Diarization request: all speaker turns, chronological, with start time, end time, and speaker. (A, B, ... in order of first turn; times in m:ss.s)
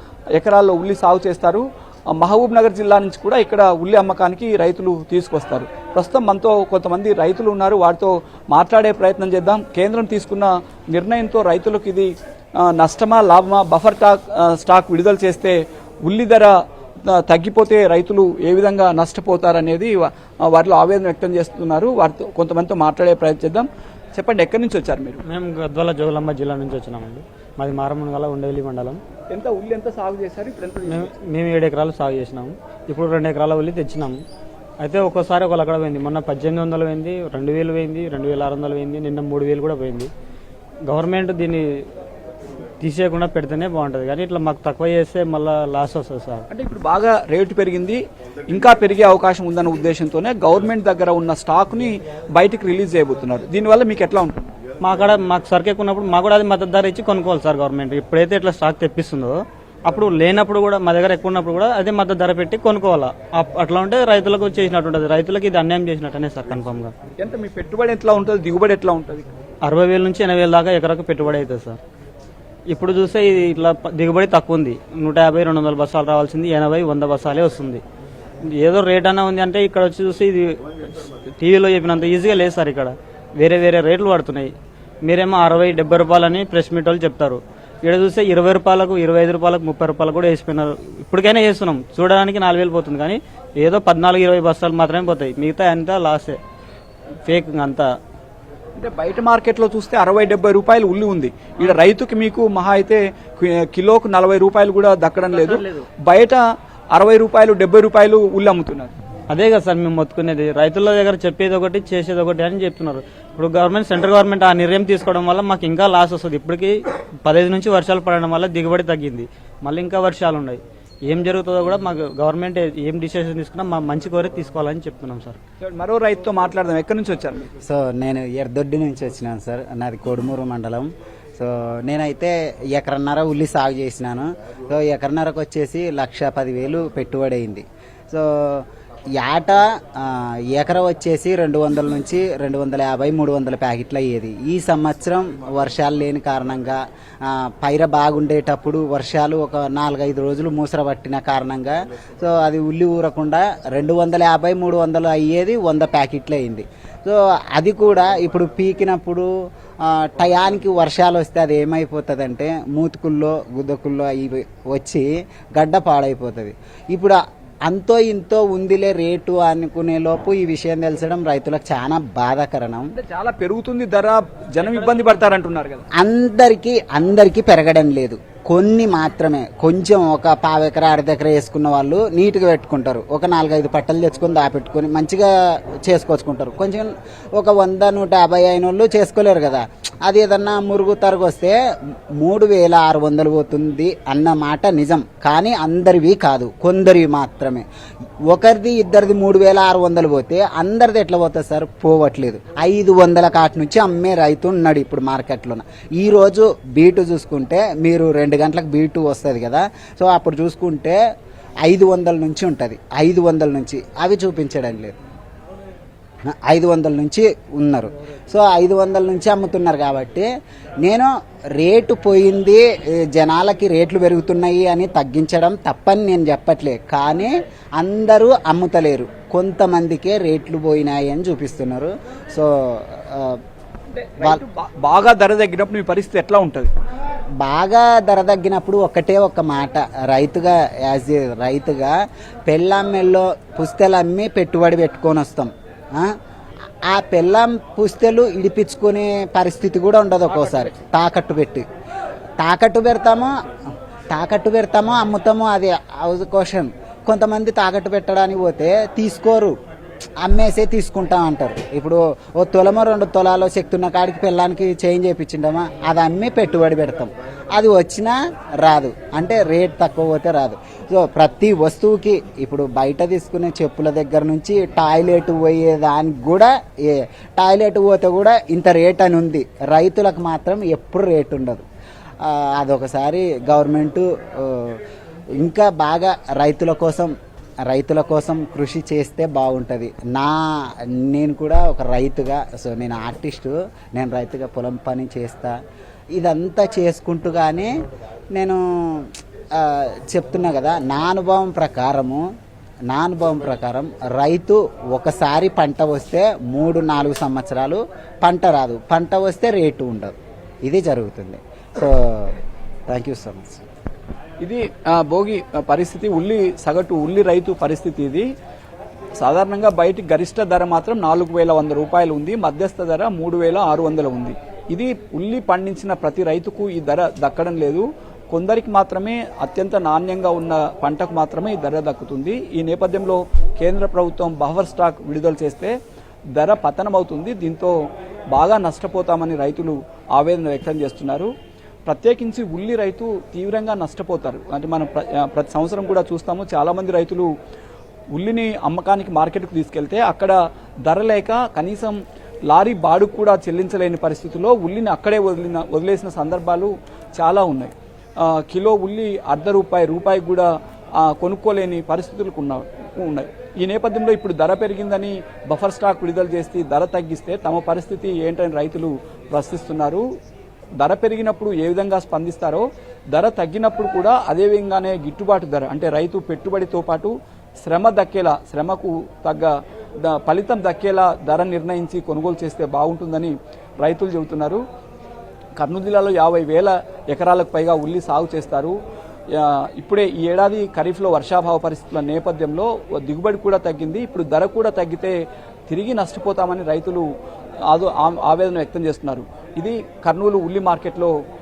0:00.4-0:12.1 A
0:12.7-0:16.5 A
0:17.1-0:25.2 A
0:25.2-0:29.0 B
0:29.3-0:31.0 A
0:30.8-0:34.2 B
0:34.8-0:40.1 B
0:40.8-0:41.8 B
0:42.8-0:46.5 B
0:46.5-0:54.5 A
0:54.8-1:06.9 B
1:07.2-1:09.3 A
1:09.6-1:11.8 B
1:12.7-1:17.8 B
1:18.5-1:24.5 B
1:25.0-1:36.4 B
1:37.2-1:37.9 B
1:38.8-1:46.4 A
1:45.3-1:45.8 B
1:46.9-1:48.9 A
1:49.3-2:05.4 B
2:05.6-2:07.5 A
2:07.6-2:18.7 C
2:19.2-2:39.3 C
2:39.8-2:52.9 C
2:52.9-2:55.8 A
2:54.6-2:55.1 B
2:55.9-3:05.3 C
3:05.8-3:11.6 C
3:12.2-3:17.7 C
3:18.3-3:31.0 C
3:31.6-3:35.0 C
3:36.3-3:40.3 C
3:40.8-3:53.4 C
3:53.9-3:56.7 A
3:57.4-4:01.9 C
4:02.5-4:06.1 C
4:06.9-4:11.6 C
4:10.3-4:10.7 A
4:12.4-4:13.3 C
4:14.1-4:19.6 C
4:20.2-4:41.6 C
4:42.2-4:44.8 C
4:45.4-4:47.1 C
4:47.7-4:55.6 C
4:56.2-4:57.7 C
4:58.3-5:02.2 C
5:02.9-5:12.4 C
5:12.9-5:13.6 C
5:14.4-5:18.3 A
5:19.2-5:35.7 A
5:36.4-5:37.8 A
5:38.3-5:41.3 A
5:41.9-5:47.3 A
5:48.1-5:50.4 A
5:50.9-5:52.0 A
5:52.5-6:00.5 A
6:01.0-6:10.0 A
6:10.8-6:17.1 A
6:17.6-6:19.5 A
6:20.0-6:24.6 A
6:25.6-6:28.8 A
6:29.4-6:35.2 A
6:35.7-6:37.0 A
6:37.7-6:41.1 A